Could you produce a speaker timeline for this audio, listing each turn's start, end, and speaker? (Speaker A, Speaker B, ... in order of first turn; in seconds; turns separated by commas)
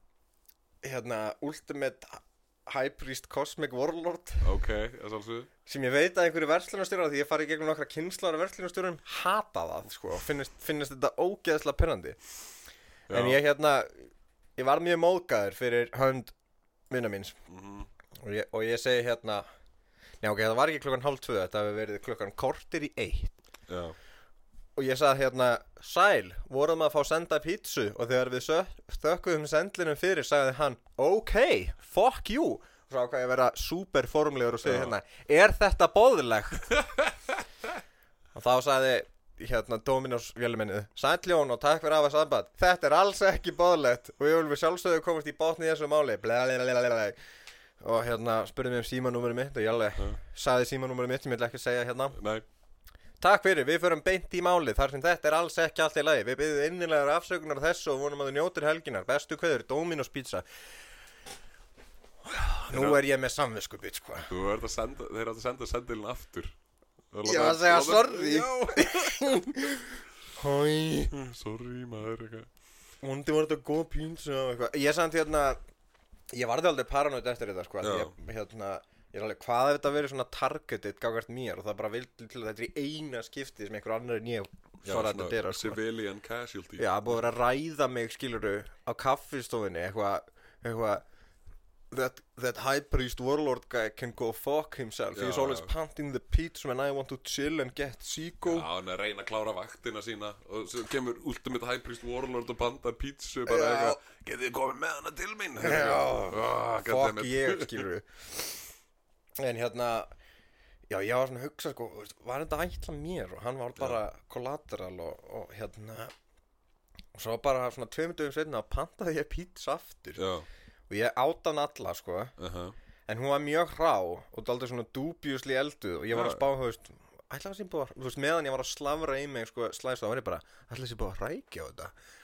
Speaker A: 0.8-4.6, Speaker B: 4.4-5.5, Speaker A: 5.7-12.2, Speaker B: 13.1-13.4, Speaker A: 13.1-16.3, Speaker A: 16.9-17.4, Speaker B: 17.5-17.9, Speaker A: 18.2-19.5, Speaker A: 20.2-23.4, Speaker B: 23.7-24.0, Speaker A: 24.8-36.8, Speaker B: 34.6-35.0, Speaker B: 36.8-37.3, Speaker A: 38.4-47.2, Speaker A: 47.8-52.2, Speaker B: 52.1-52.5, Speaker A: 53.2-60.5, Speaker A: 62.3-64.3, Speaker B: 62.7-63.0, Speaker B: 64.3-66.6, Speaker B: 67.1-69.3, Speaker A: 67.2-69.7, Speaker A: 70.4-71.1, Speaker B: 71.1-72.5, Speaker A: 73.0-75.6, Speaker A: 76.3-85.8, Speaker B: 77.8-78.2, Speaker B: 84.8-87.2, Speaker A: 86.8-91.0, Speaker A: 91.9-98.7, Speaker B: 95.1-95.7, Speaker B: 98.4-107.8, Speaker A: 103.5-104.0, Speaker A: 105.6-108.1, Speaker A: 109.4-110.1, Speaker A: 110.9-116.1, Speaker A: 117.2-120.2, Speaker B: 120.2-120.5, Speaker A: 120.9-122.3, Speaker B: 122.4-122.8, Speaker A: 123.1-131.9, Speaker B: 126.1-126.5